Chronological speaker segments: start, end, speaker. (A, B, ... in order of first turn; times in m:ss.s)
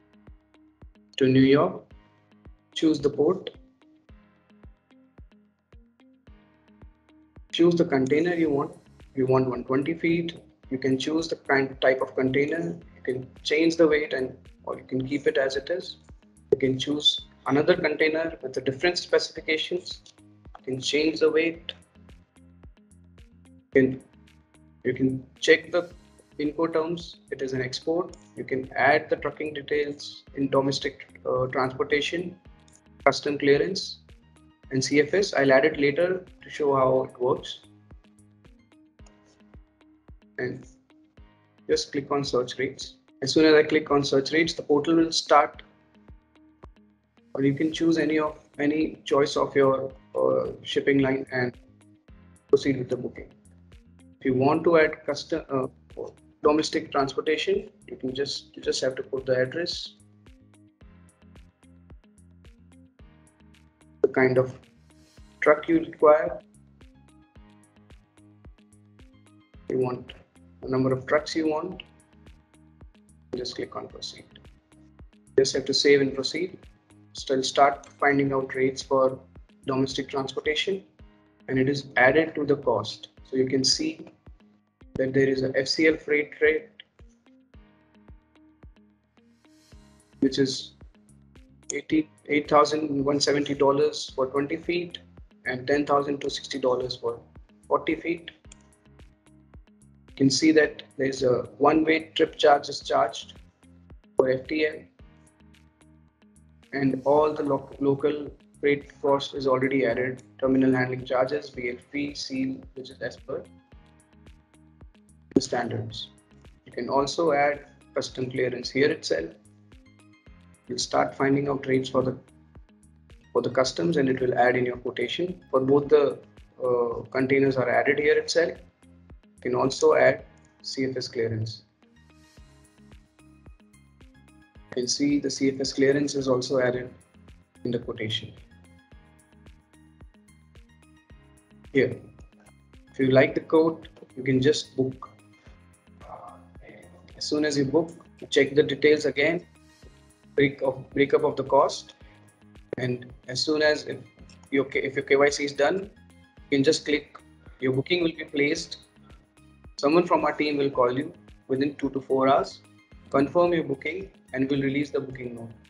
0:01.2-0:01.9 A
0:02.7-0:03.5 A
0:07.5-0:16.0 A
0:16.5-0:20.0 A
0:20.6-0:21.7 A
0:23.7-0:24.0 A
0:24.8-0:32.4 A
0:33.0-0:34.0 A
0:34.7-0:37.7 A
0:40.4-0:40.7 A
0:41.7-0:45.6 A
0:47.3-0:51.6 A
0:52.5-0:53.3 A
0:54.2-1:00.0 A
1:04.0-1:04.6 A
1:05.4-1:06.4 A
1:09.7-1:11.8 A
1:13.3-1:14.4 A
1:15.4-1:16.6 A
1:17.1-1:20.8 A
1:21.5-1:24.1 A
1:25.0-1:26.8 A
1:30.2-1:30.7 A
1:31.7-1:38.3 A
1:40.2-1:43.4 A
1:44.2-1:44.9 A
1:46.7-1:53.5 A
1:55.3-1:56.1 A
1:56.6-1:59.3 A
2:00.7-2:02.2 A
2:03.3-2:08.6 A
2:09.4-2:11.6 A
2:14.7-2:17.0 A
2:17.6-2:18.4 A
2:21.7-2:22.0 A
2:23.0-2:25.1 A
2:27.2-2:29.5 A
2:30.4-2:32.0 A
2:32.8-2:35.9 A
2:36.5-2:38.8 A
2:39.8-2:45.6 A